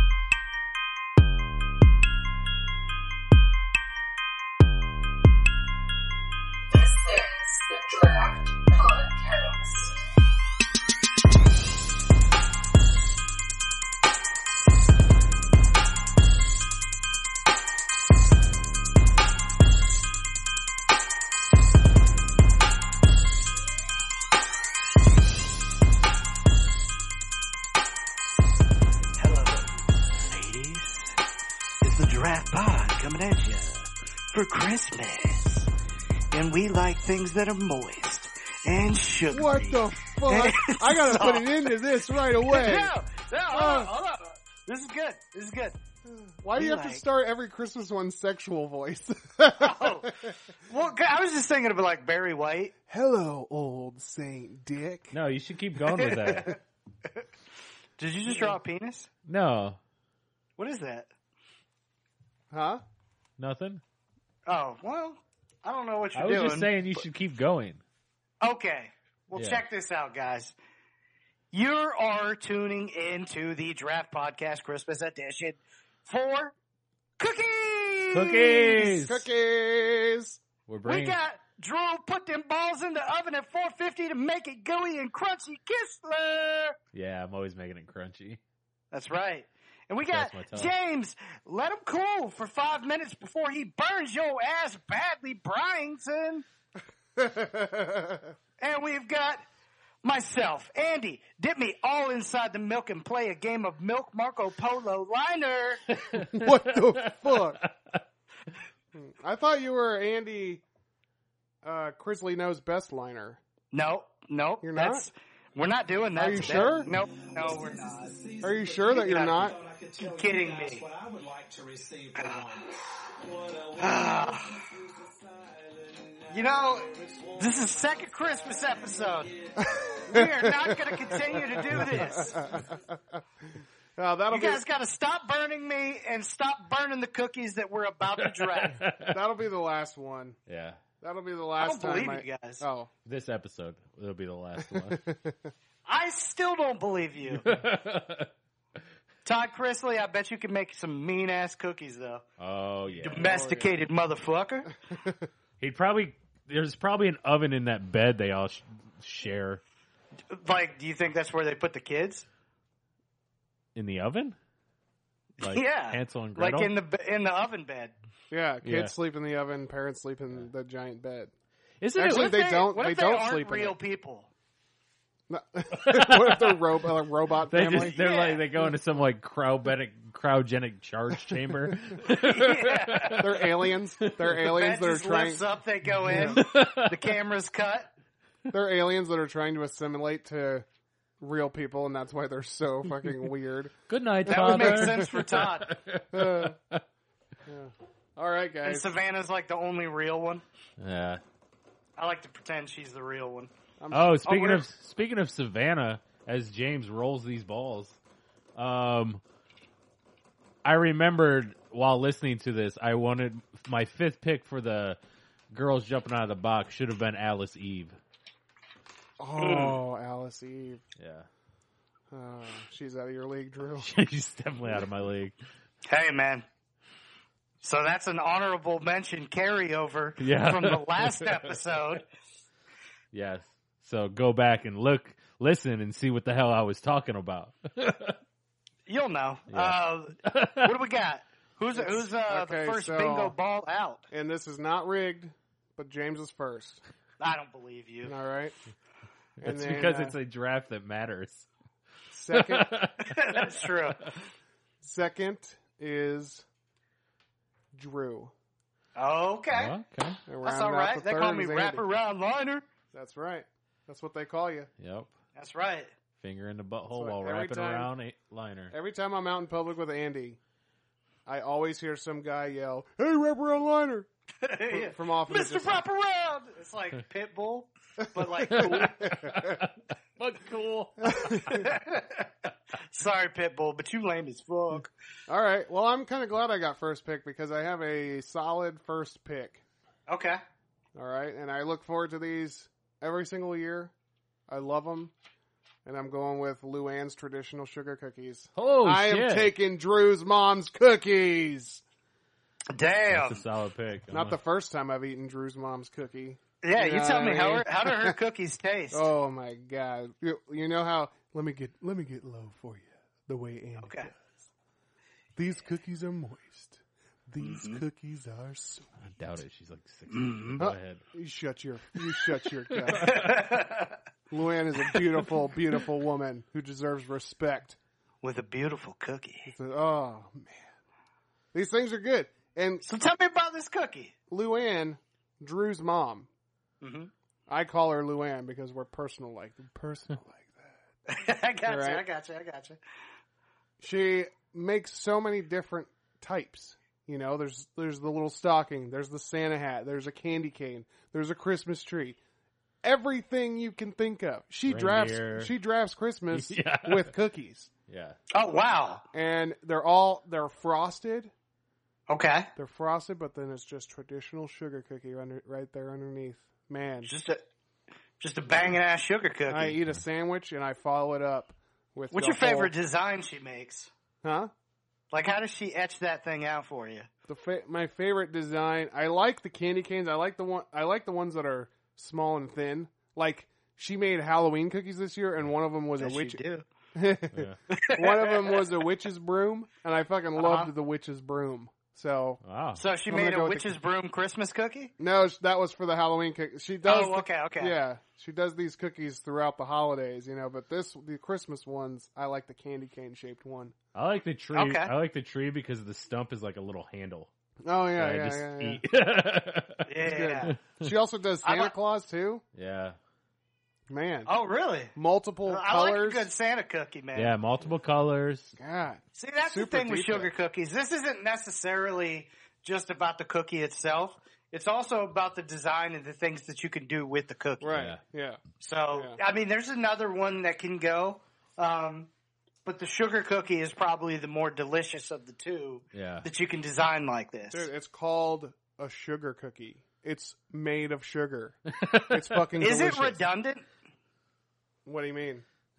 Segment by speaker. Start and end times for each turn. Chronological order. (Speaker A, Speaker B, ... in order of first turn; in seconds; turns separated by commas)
Speaker A: 6.7-9.9, Speaker B: 29.2-31.1, Speaker B: 31.8-35.7, Speaker B: 36.3-41.6, Speaker C: 39.3-42.9, Speaker B: 42.4-45.8, Speaker C: 43.5-43.9, Speaker C: 46.0-50.3, Speaker B: 46.5-47.0, Speaker B: 49.6-52.7, Speaker C: 52.9-55.1, Speaker D: 55.1-56.6, Speaker B: 55.9-56.5, Speaker C: 56.2-56.5, Speaker B: 58.0-59.1, Speaker C: 58.3-58.5, Speaker D: 59.3-59.8, Speaker B: 60.6-61.1, Speaker C: 62.5-62.8, Speaker D: 63.4-63.8, Speaker B: 64.5-67.0, Speaker D: 66.1-67.8, Speaker B: 68.4-70.5, Speaker D: 69.3-69.6, Speaker B: 71.5-76.5, Speaker B: 77.2-78.5, Speaker D: 78.1-79.2, Speaker C: 78.5-80.4, Speaker D: 80.7-81.2, Speaker B: 80.8-86.8, Speaker D: 86.9-88.4, Speaker B: 88.9-96.4, Speaker D: 90.0-90.7, Speaker C: 97.2-98.3, Speaker B: 98.6-99.4, Speaker B: 100.0-105.8, Speaker D: 106.0-108.0, Speaker C: 106.1-107.6, Speaker C: 108.9-110.6, Speaker C: 111.6-113.4, Speaker B: 113.7-118.1, Speaker C: 114.6-115.1, Speaker C: 116.2-116.9, Speaker E: 116.4-132.9, Speaker C: 118.4-119.6, Speaker B: 120.0-120.9, Speaker B: 122.1-122.5, Speaker B: 123.8-124.6, Speaker B: 126.3-129.3, Speaker C: 129.6-130.8, Speaker B: 130.1-132.3, Speaker C: 131.3-133.2, Speaker C: 133.9-134.6, Speaker B: 134.3-138.8, Speaker D: 138.2-139.2, Speaker C: 139.0-140.4, Speaker D: 140.5-140.8, Speaker C: 141.0-142.9, Speaker B: 141.6-142.6, Speaker D: 143.1-145.0, Speaker C: 144.7-145.5, Speaker B: 145.8-147.5, Speaker D: 147.4-148.3, Speaker B: 149.2-152.2, Speaker D: 152.4-153.3, Speaker B: 153.0-154.7, Speaker C: 153.2-153.7, Speaker C: 154.9-155.3, Speaker D: 155.6-159.6, Speaker B: 160.3-162.2, Speaker D: 163.7-164.3, Speaker B: 165.4-167.9, Speaker D: 165.4-166.7, Speaker C: 168.3-171.3, Speaker D: 168.6-168.9, Speaker D: 171.8-172.4, Speaker C: 171.9-173.8, Speaker B: 172.0-174.3, Speaker C: 175.3-178.0, Speaker D: 175.7-176.6, Speaker D: 177.5-184.4, Speaker B: 177.6-178.4, Speaker B: 182.0-183.2, Speaker C: 183.2-185.4, Speaker B: 184.5-187.9, Speaker C: 186.1-186.4, Speaker D: 186.1-187.0, Speaker C: 188.5-190.7, Speaker C: 191.2-195.2, Speaker D: 193.9-196.8, Speaker B: 194.3-195.7, Speaker C: 196.1-196.6, Speaker C: 197.4-198.9, Speaker B: 198.6-200.4, Speaker D: 200.8-201.2, Speaker B: 202.0-203.5, Speaker C: 203.8-204.6, Speaker D: 203.9-208.0, Speaker D: 208.6-209.2, Speaker D: 210.6-215.0, Speaker D: 215.5-217.9, Speaker C: 219.2-220.8, Speaker B: 219.4-219.8, Speaker D: 221.0-221.3, Speaker C: 222.1-223.9, Speaker D: 223.8-225.3, Speaker B: 225.9-226.4, Speaker B: 227.6-232.0, Speaker D: 230.2-231.6, Speaker D: 233.1-238.2, Speaker B: 238.9-244.0, Speaker D: 239.5-240.7, Speaker C: 241.7-243.3, Speaker C: 244.1-246.8, Speaker B: 247.2-248.1, Speaker C: 248.0-248.6, Speaker D: 249.4-251.5, Speaker C: 249.4-250.2, Speaker C: 252.1-252.7, Speaker D: 252.3-254.1, Speaker B: 253.0-254.1, Speaker C: 254.8-256.4, Speaker C: 257.7-258.3, Speaker B: 258.9-259.7, Speaker D: 259.5-260.2, Speaker C: 260.3-261.8, Speaker B: 260.4-262.6, Speaker C: 262.9-264.7, Speaker D: 264.8-265.1, Speaker B: 265.3-265.9, Speaker D: 266.2-268.7, Speaker C: 266.9-267.9, Speaker C: 268.7-270.4, Speaker C: 271.2-274.1, Speaker B: 274.4-279.0, Speaker C: 274.7-275.8, Speaker C: 278.0-279.6, Speaker D: 278.5-281.5, Speaker C: 281.0-281.6, Speaker B: 281.5-282.3, Speaker B: 282.9-284.9, Speaker C: 285.3-289.6, Speaker B: 290.1-290.4, Speaker C: 290.9-293.9, Speaker C: 294.5-295.1, Speaker C: 295.8-301.8, Speaker D: 298.6-299.5, Speaker B: 302.7-303.4, Speaker D: 303.1-304.4, Speaker C: 304.1-308.2, Speaker B: 306.6-309.1, Speaker C: 308.9-314.4, Speaker B: 313.8-314.1, Speaker C: 315.4-318.9, Speaker B: 317.4-317.8, Speaker D: 319.0-321.0, Speaker B: 320.1-320.6, Speaker C: 320.6-323.3, Speaker B: 322.9-323.9, Speaker D: 323.0-323.3, Speaker C: 324.3-327.8, Speaker B: 328.2-329.5, Speaker C: 329.4-330.7, Speaker C: 331.5-332.8, Speaker B: 332.8-334.1, Speaker C: 334.3-336.3, Speaker B: 336.8-337.1, Speaker C: 337.5-340.8, Speaker B: 341.1-342.8, Speaker C: 341.7-342.0, Speaker C: 343.8-352.2, Speaker C: 352.8-357.7, Speaker D: 354.6-355.5, Speaker D: 356.3-357.1, Speaker D: 357.9-358.2, Speaker B: 358.3-359.0, Speaker C: 359.1-361.3, Speaker B: 362.1-362.5, Speaker C: 362.6-367.1, Speaker B: 367.0-367.4, Speaker B: 368.2-369.8, Speaker C: 369.5-372.7, Speaker B: 372.1-373.9, Speaker C: 374.2-374.5, Speaker B: 375.1-377.1, Speaker C: 377.3-386.4, Speaker B: 386.0-386.6, Speaker C: 386.9-392.4, Speaker D: 387.3-387.6, Speaker B: 387.7-388.7, Speaker B: 390.4-390.7, Speaker D: 392.4-392.8, Speaker B: 392.8-394.9, Speaker C: 393.1-393.7, Speaker C: 395.0-403.7, Speaker B: 396.8-397.8, Speaker D: 403.9-407.3, Speaker B: 404.5-404.9, Speaker C: 407.6-408.8, Speaker D: 408.0-409.9, Speaker B: 409.9-410.6, Speaker C: 410.0-412.4, Speaker D: 410.5-410.9, Speaker B: 411.4-411.7, Speaker D: 412.5-413.0, Speaker C: 413.9-414.3, Speaker B: 414.2-414.9, Speaker C: 414.9-416.3, Speaker B: 415.5-417.3, Speaker D: 417.1-418.6, Speaker C: 418.6-420.3, Speaker B: 419.1-427.8, Speaker C: 427.6-428.4, Speaker D: 427.7-428.0, Speaker B: 428.6-432.1, Speaker B: 432.6-437.7, Speaker D: 435.9-436.3, Speaker C: 437.5-443.2, Speaker D: 441.7-442.4, Speaker B: 442.6-443.6, Speaker C: 444.9-445.4